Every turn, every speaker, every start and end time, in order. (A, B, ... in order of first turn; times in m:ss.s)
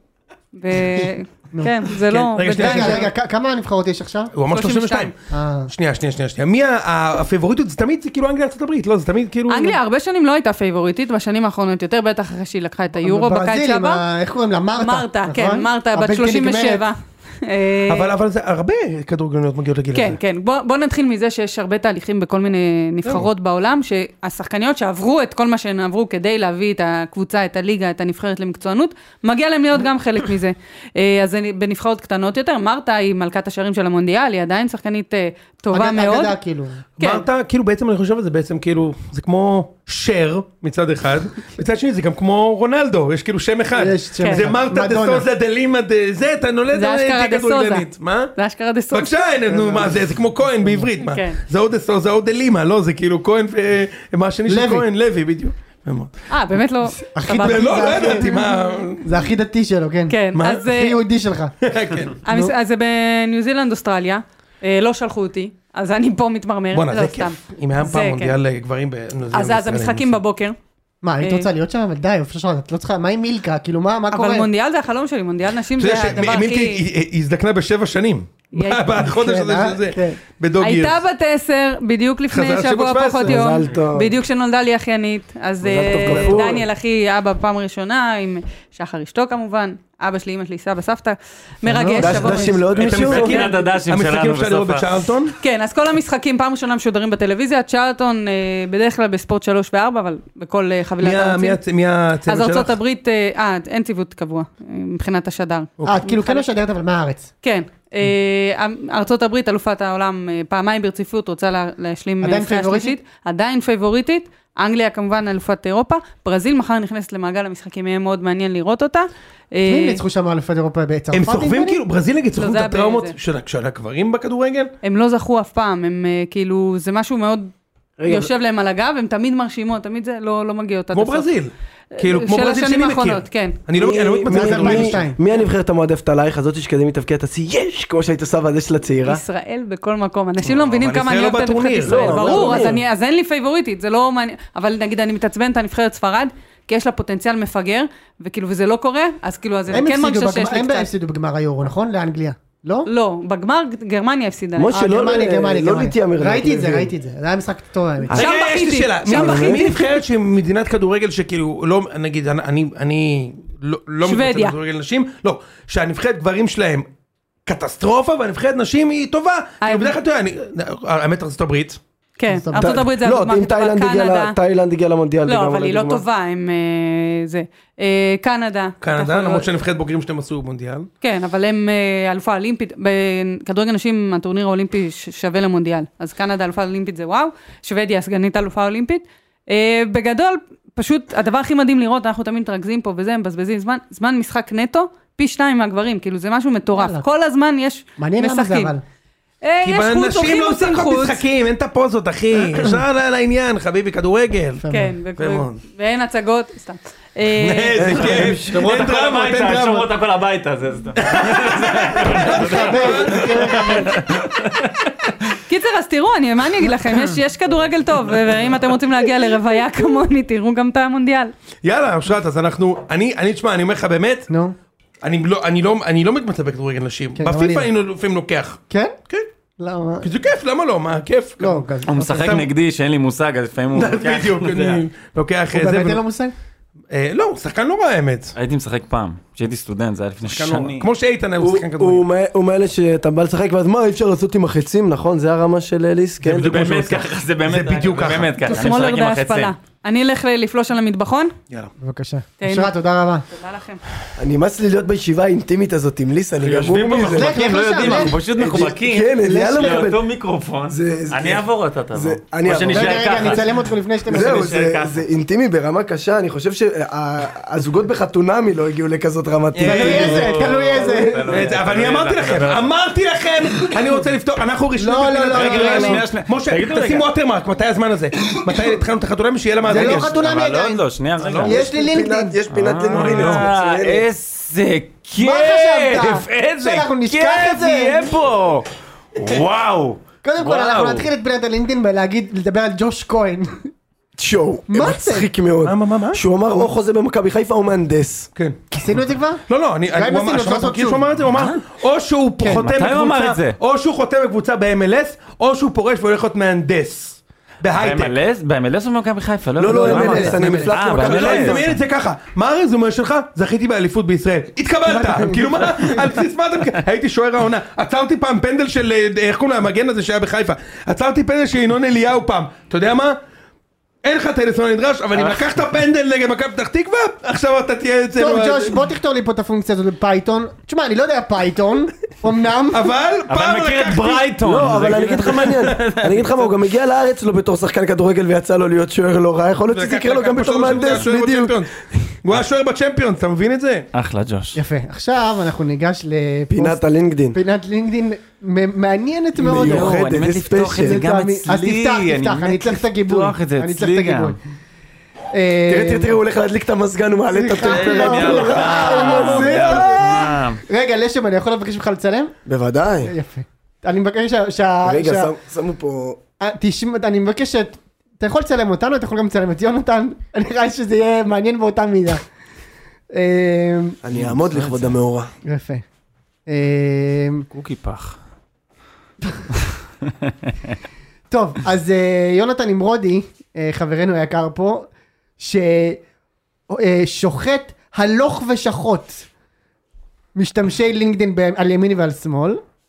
0:00.5-0:03.1 A
0:02.0-0:03.1 B
0:02.6-0:04.3 C
0:04.3-0:05.1 B
0:04.5-0:05.1 A
0:05.3-0:05.7 C
0:05.7-0:09.8 B
0:09.5-0:14.0 A
0:13.0-0:16.8 C
0:14.8-0:18.1 A
0:17.8-0:20.2 B
0:19.9-0:36.3 A
0:35.7-0:36.8 C
0:37.0-0:37.2 A
0:37.0-0:48.3 B
0:43.7-0:45.3 C
0:44.2-0:44.5 A
0:46.7-0:49.1 A
0:48.9-0:56.1 B
0:49.5-0:50.0 C
0:50.6-0:50.9 C
0:51.0-0:51.4 A
0:54.5-0:54.8 C
0:56.3-0:58.5 A
0:57.0-0:58.5 C
0:57.3-0:59.2 B
0:59.0-1:01.5 C
1:00.1-1:01.0 A
1:00.3-1:00.6 B
1:01.6-1:02.2 B
1:02.2-1:08.4 A
1:02.3-1:02.5 C
1:06.7-1:10.2 B
1:09.3-1:10.6 A
1:11.0-1:14.5 C
1:11.2-1:11.5 A
1:14.1-1:16.8 A
1:15.8-1:21.0 B
1:18.5-1:19.0 A
1:19.0-1:20.2 C
1:20.6-1:32.6 A
1:22.3-1:23.3 B
1:23.2-1:24.2 D
1:25.6-1:26.6 D
1:26.0-1:26.6 B
1:31.6-1:32.6 C
1:32.0-1:33.4 D
1:32.7-1:35.3 B
1:32.8-1:35.1 E
1:35.4-1:41.6 A
1:41.0-1:42.7 B
1:42.3-1:46.4 A
1:45.8-1:46.0 B
1:45.8-1:47.3 C
1:47.4-2:00.0 A
1:52.2-1:53.0 C
1:59.6-2:01.8 C
2:01.1-2:04.7 B
2:02.4-2:03.1 A
2:04.8-2:07.5 A
2:08.0-2:08.3 D
2:08.0-2:11.3 A
2:10.9-2:15.1 B
2:12.0-2:13.6 A
2:13.7-2:19.2 D
2:14.2-2:15.2 C
2:19.0-2:30.9 A
2:20.4-2:22.8 B
2:21.8-2:22.8 D
2:29.7-2:32.9 C
2:32.8-2:34.7 A
2:34.6-2:36.9 D
2:34.7-2:38.2 C
2:38.1-2:39.9 A
2:38.1-2:46.9 B
2:39.1-2:39.7 D
2:44.0-2:44.5 A
2:47.4-2:51.8 B
2:49.6-2:49.9 A
2:52.2-2:54.4 A
2:52.3-2:52.8 C
2:52.6-2:56.0 D
2:55.2-2:59.5 A
2:58.8-3:00.9 B
3:01.0-3:18.7 A
3:16.7-3:17.0 C
3:18.0-3:18.8 C
3:19.4-3:21.2 A
3:19.6-3:24.6 B
3:24.6-3:24.9 C
3:24.7-3:27.8 A
3:25.2-3:25.6 B
3:27.3-3:29.8 B
3:27.8-3:28.6 D
3:27.8-3:34.9 E
3:31.0-3:33.9 B
3:32.3-3:34.0 C
3:35.5-3:41.3 A
3:41.6-3:44.3 B
3:44.3-3:44.6 C
3:45.0-3:49.3 B
3:47.1-3:47.7 C
3:48.7-3:49.0 C
3:49.6-3:50.1 C
3:50.0-3:52.4 B
3:51.4-3:52.4 C
3:51.8-3:54.8 E
3:53.7-3:56.0 B
3:55.5-3:56.3 C
3:56.9-3:58.3 B
3:58.4-4:00.8 E
4:00.2-4:02.0 B
4:01.4-4:06.7 D
4:06.2-4:09.5 E
4:06.4-4:08.4 B
4:08.4-4:11.3 A
4:11.8-4:13.2 C
4:12.4-4:12.7 A
4:13.3-4:13.8 A
4:14.2-4:20.0 D
4:16.4-4:23.4 E
4:17.0-4:18.1 C
4:19.2-4:19.9 C
4:20.7-4:23.4 D
4:22.6-4:24.5 C
4:24.1-4:25.0 E
4:24.1-4:30.1 D
4:29.5-4:30.3 B
4:29.6-4:31.4 C
4:29.6-4:32.7 E
4:31.3-4:40.1 B
4:34.8-4:36.0 C
4:35.3-4:37.0 E
4:39.7-4:40.8 C
4:39.7-4:41.6 E
4:41.2-4:41.5 B
4:41.4-4:44.0 D
4:41.4-4:42.4 C
4:42.5-4:51.1 E
4:42.9-4:43.5 B
4:45.2-4:48.1 C
4:50.2-4:53.5 C
4:54.2-4:58.3 D
4:54.7-4:55.3 C
4:55.6-4:56.2 B
4:58.7-4:59.4 C
4:59.5-5:08.1 B
4:59.9-5:01.2 C
5:01.3-5:01.6 E
5:02.4-5:02.7 C
5:02.7-5:03.6 E
5:07.8-5:11.8 E
5:09.6-5:11.6 D
5:09.7-5:10.7 C
5:09.9-5:23.2 B
5:14.8-5:16.0 C
5:24.0-5:28.8 B
5:25.2-5:25.4 E
5:28.2-5:32.9 C
5:32.7-5:34.3 B
5:33.3-5:36.5 E
5:34.4-5:41.8 D
5:34.9-5:35.8 B
5:39.7-5:41.7 B
5:42.2-5:43.8 B
5:43.9-5:44.6 E
5:44.5-5:46.8 C
5:46.5-5:47.4 D
5:47.3-5:50.0 C
5:49.4-5:51.0 D
5:49.4-5:54.4 E
5:50.8-5:54.4 C
5:55.3-5:56.1 C
5:55.7-6:00.3 D
5:57.3-6:02.3 C
5:57.6-6:00.6 E
6:02.4-6:03.1 D
6:03.0-6:05.3 C
6:04.8-6:06.2 D
6:06.4-6:12.2 C
6:13.1-6:14.0 C
6:14.0-6:15.3 D
6:14.1-6:14.9 E
6:15.4-6:15.8 C
6:16.5-6:17.4 C
6:17.5-6:18.2 E
6:21.3-6:24.9 C
6:25.4-6:26.0 C
6:26.7-6:29.3 C
6:30.3-6:32.6 C